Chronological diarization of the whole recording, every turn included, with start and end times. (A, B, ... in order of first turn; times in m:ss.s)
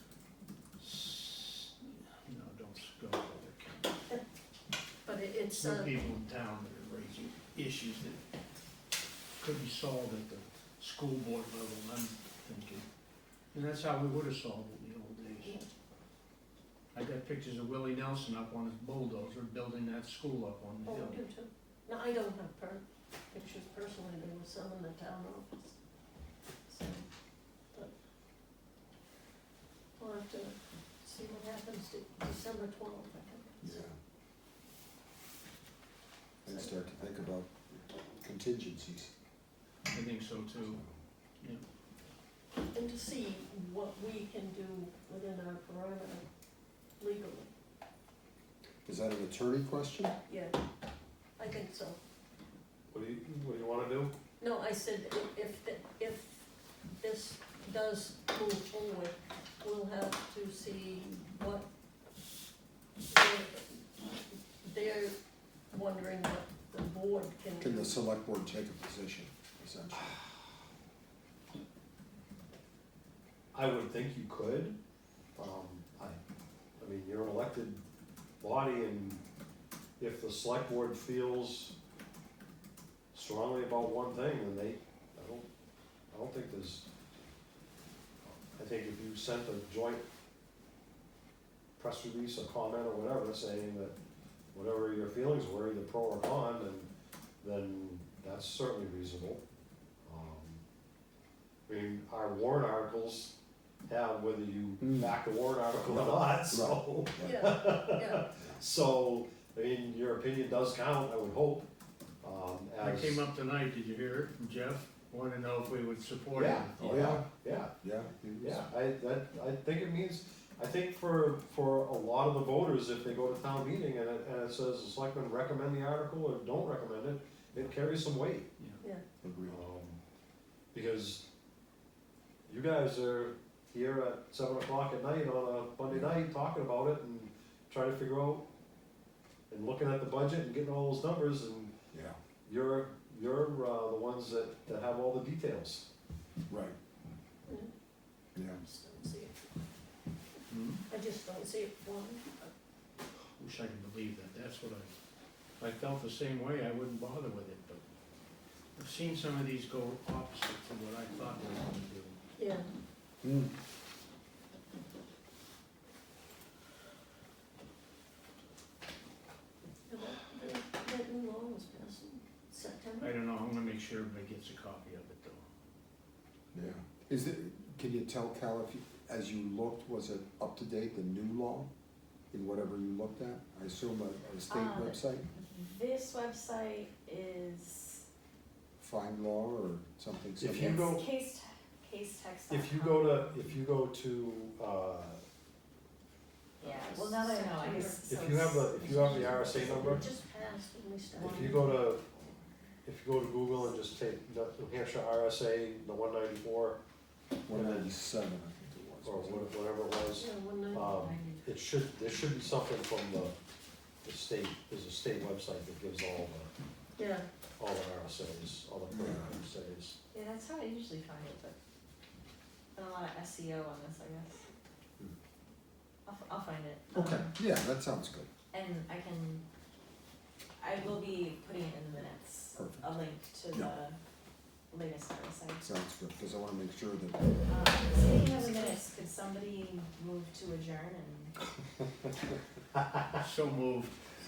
0:00.8-0:04.0 A
0:05.0-0:05.9 B
0:05.6-0:08.2 A
0:09.4-0:12.9 A
0:13.5-0:15.6 A
0:15.4-0:15.7 B
0:16.9-0:21.2 A
0:20.8-0:25.8 B
0:26.7-0:27.1 B
0:30.0-0:33.8 B
0:33.6-0:33.9 C
0:36.4-0:39.1 C
0:39.9-0:40.8 A
0:40.6-0:40.9 C
0:42.7-0:46.3 B
0:47.0-0:47.5 B
0:48.8-0:50.2 C
0:50.3-0:50.6 B
0:51.4-0:52.0 B
0:52.9-0:54.2 D
0:54.4-0:56.5 B
0:57.0-1:01.7 B
1:03.1-1:05.2 B
1:05.7-1:08.0 B
1:07.6-1:10.1 C
1:13.5-1:14.8 D
1:15.4-1:16.2 D
1:16.8-1:17.8 D
1:18.4-1:19.2 D
1:20.0-1:21.8 D
1:23.1-1:25.5 D
1:26.1-1:26.9 D
1:28.2-1:30.0 D
1:31.8-1:34.0 D
1:34.5-1:36.9 D
1:37.4-1:39.4 D
1:40.0-1:40.6 D
1:41.7-1:51.7 D
1:44.8-1:45.2 C
1:45.7-1:47.4 C
1:47.2-1:48.2 B
1:52.2-1:53.3 D
1:52.8-1:57.2 A
1:56.3-1:57.7 D
1:56.8-1:58.7 C
1:58.4-2:08.5 D
2:08.6-2:08.8 A
2:09.2-2:09.6 C
2:09.5-2:10.0 D
2:10.7-2:11.3 D
2:12.5-2:18.5 D
2:19.5-2:21.7 D
2:21.9-2:22.2 C
2:22.4-2:25.9 D
2:26.5-2:26.8 C
2:27.5-2:27.7 B
2:28.4-2:28.6 C
2:28.6-2:29.5 B
2:30.5-2:30.8 A
2:30.9-2:32.5 B
2:33.4-2:34.9 A
2:35.6-2:37.8 A
2:38.8-2:42.2 A
2:42.4-2:42.7 B
2:43.2-2:43.5 C
2:49.9-2:53.1 B
2:53.0-2:55.4 A
2:56.5-3:01.7 C
3:02.3-3:05.3 C
3:04.5-3:08.0 E
3:08.8-3:10.9 C
3:10.4-3:11.0 D
3:10.6-3:13.5 E
3:12.5-3:15.2 D
3:16.6-3:18.0 B
3:16.6-3:19.8 E
3:18.0-3:20.0 D
3:19.6-3:21.7 B
3:21.2-3:22.0 D
3:21.2-3:22.7 E
3:22.8-3:26.8 D
3:27.5-3:29.5 C
3:27.5-3:27.9 D
3:29.0-3:33.4 D
3:30.1-3:30.9 B
3:30.9-3:31.5 E
3:34.0-3:36.5 D
3:37.0-3:37.2 B
3:37.6-3:40.0 D
3:38.9-3:39.3 C
3:40.1-3:41.6 E
3:42.8-3:44.5 E
3:46.1-3:47.3 E
3:46.9-3:48.3 C
3:48.5-3:49.4 E
3:50.6-3:54.0 E
3:52.5-3:52.9 C
3:53.5-3:53.8 C
3:54.7-3:55.7 E
3:55.6-3:58.7 C
3:57.5-4:01.4 E
4:01.6-4:02.3 C
4:03.2-4:04.0 A